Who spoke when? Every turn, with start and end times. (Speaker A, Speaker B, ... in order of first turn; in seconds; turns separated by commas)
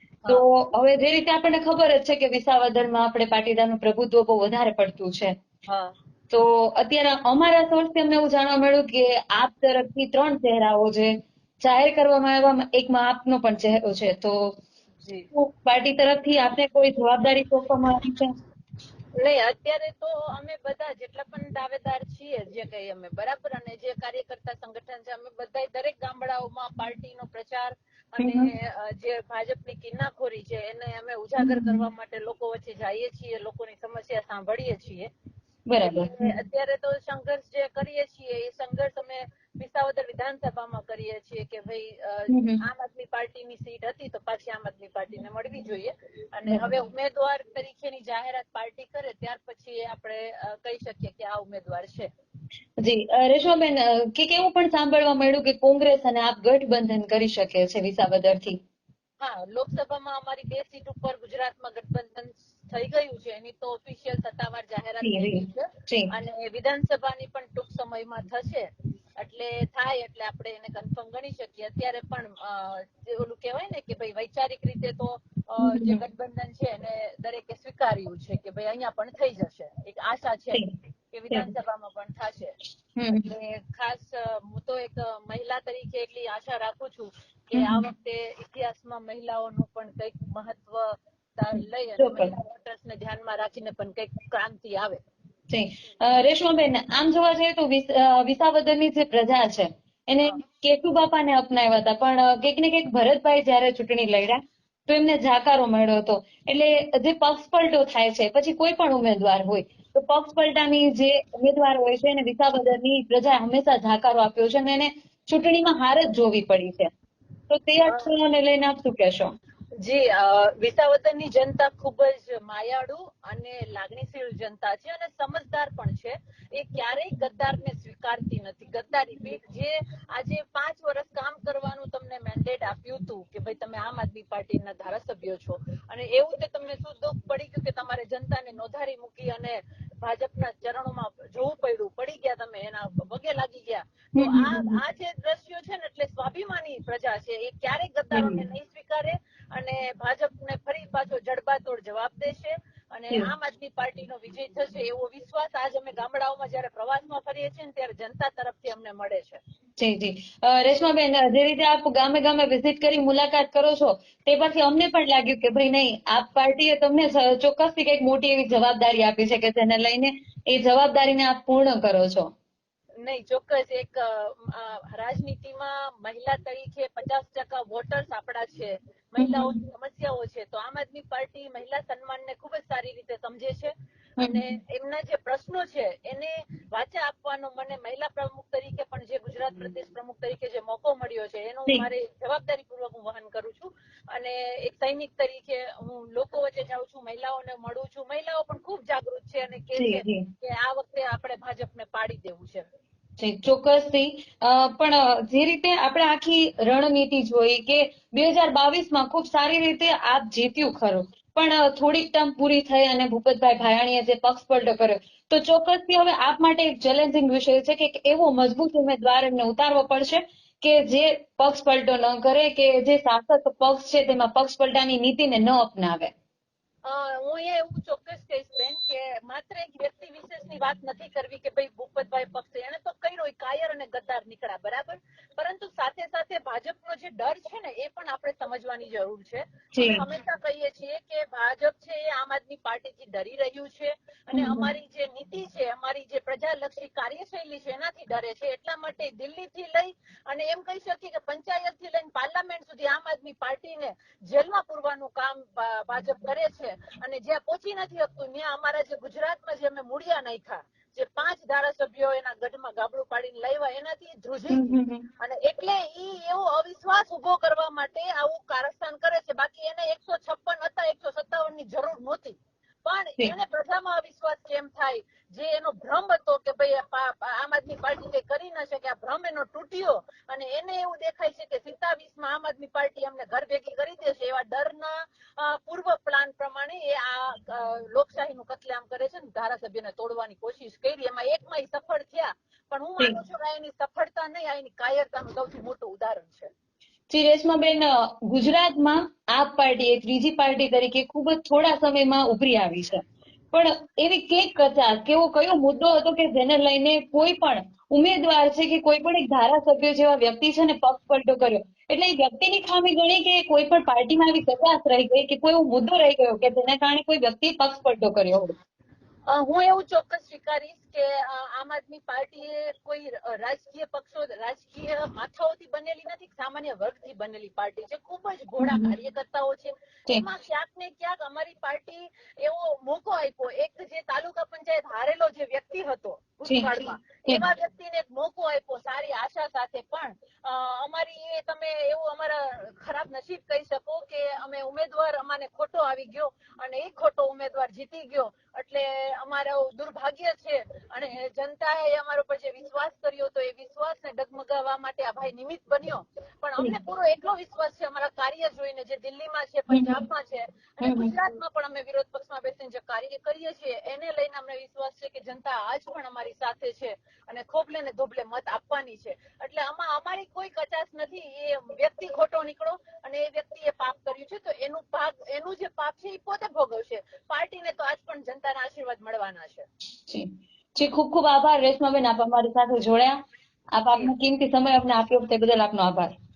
Speaker A: 0.3-5.4, Speaker B: 5.7-5.9, Speaker A: 6.3-14.6, Speaker B: 15.0-15.3, Speaker A: 15.3-18.3, Speaker B: 19.2-35.1, Speaker A: 28.2-28.5, Speaker A: 31.4-31.9, Speaker A: 35.7-36.3, Speaker B: 35.8-52.1, Speaker A: 42.3-42.6, Speaker A: 52.8-58.6, Speaker B: 59.2-68.7, Speaker A: 65.0-66.1, Speaker B: 69.2-82.5, Speaker A: 75.6-76.0, Speaker A: 83.0-83.3, Speaker B: 83.1-95.0, Speaker A: 87.5-87.9, Speaker A: 92.0-92.3, Speaker A: 95.5-116.9, Speaker A: 117.5-119.3, Speaker B: 119.8-159.4, Speaker A: 144.2-144.8, Speaker A: 148.1-148.4, Speaker A: 159.8-172.3, Speaker B: 173.1-202.7, Speaker A: 179.2-179.6, Speaker A: 184.2-184.5, Speaker A: 199.8-200.3, Speaker A: 203.2-226.1, Speaker B: 226.8-296.5, Speaker A: 239.8-240.0, Speaker A: 244.3-244.7, Speaker A: 264.5-265.1, Speaker A: 297.1-318.6, Speaker B: 319.3-379.7, Speaker A: 328.6-328.9, Speaker A: 359.7-360.0, Speaker A: 360.8-361.1, Speaker A: 380.1-383.2, Speaker A: 383.8-386.1